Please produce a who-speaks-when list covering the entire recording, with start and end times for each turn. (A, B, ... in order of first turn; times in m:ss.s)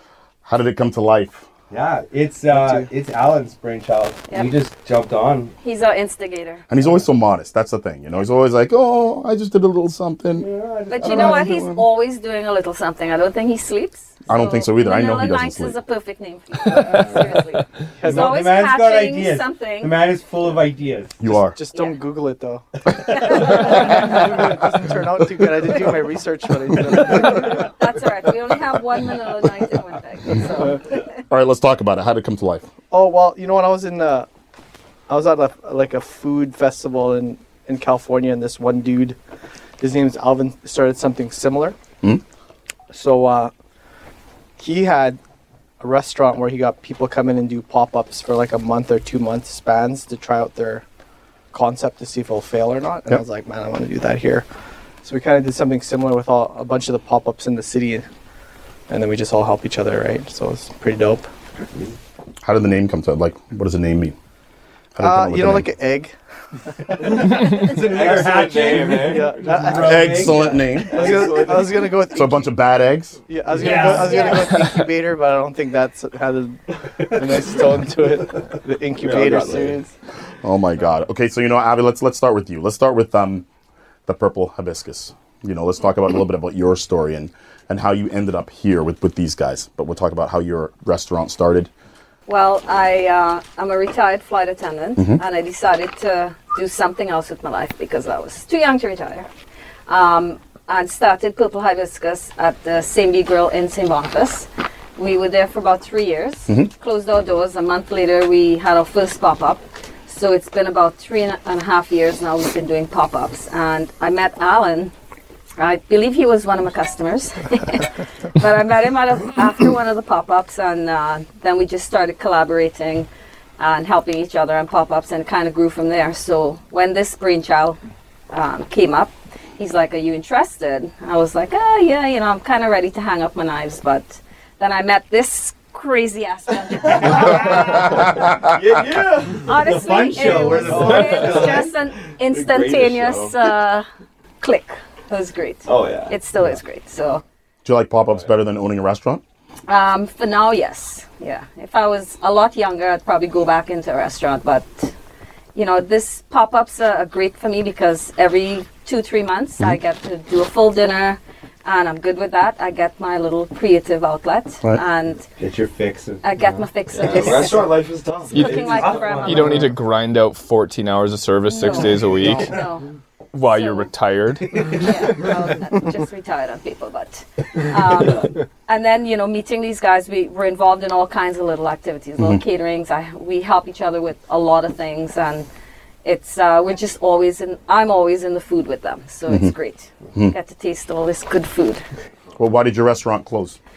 0:00.4-0:01.5 A
0:01.7-0:05.5 B
0:02.5-0:02.9 C
0:05.6-0:06.6 D
0:06.7-0:10.5 A
0:10.4-0:11.5 B
0:10.9-0:20.0 D
0:11.0-0:11.9 A
0:14.3-0:15.8 A
0:18.0-0:18.4 C
0:18.0-0:21.2 B
0:21.2-0:21.6 A
0:21.3-0:27.7 C
0:21.7-0:22.0 D
0:27.0-0:31.1 D
0:31.3-0:32.7 A
0:32.9-0:34.3 C
0:35.1-0:39.2 C
0:39.8-0:41.8 C
0:42.9-0:43.5 C
0:44.6-0:45.2 C
0:45.8-0:50.8 C
0:51.5-0:54.5 C
0:55.0-0:58.1 C
0:58.9-1:01.3 C
1:02.4-1:04.2 A
1:05.0-1:05.7 A
1:05.0-1:06.1 C
1:07.0-1:12.6 C
1:07.0-1:11.3 B
1:07.2-1:09.9 E
1:09.8-1:11.1 A
1:10.9-1:11.9 E
1:12.1-1:13.2 A
1:13.3-1:19.9 C
1:13.6-1:14.3 B
1:13.9-1:14.5 D
1:19.0-1:19.8 E
1:20.4-1:23.4 A
1:24.1-1:31.7 A
1:32.3-1:39.3 D
1:39.9-1:54.9 D
1:55.6-2:03.1 D
2:03.6-2:07.8 D
2:08.3-2:18.1 D
2:16.9-2:23.4 E
2:17.0-2:17.8 B
2:19.4-2:23.9 D
2:19.6-2:21.7 B
2:24.4-2:27.2 D
2:25.7-2:26.1 E
2:27.6-2:29.2 A
2:29.7-2:34.9 D
2:35.6-2:45.2 D
2:45.4-2:46.2 B
2:46.2-2:47.8 D
2:47.0-2:49.2 E
2:47.1-2:47.6 B
2:48.3-2:49.7 D
2:48.3-2:52.6 F
2:48.3-2:49.7 B
2:51.5-2:52.9 D
2:53.3-2:54.8 F
2:53.5-2:53.9 D
2:54.6-3:05.5 D
3:06.0-3:11.8 D
3:09.3-3:09.5 A
3:12.4-3:13.6 A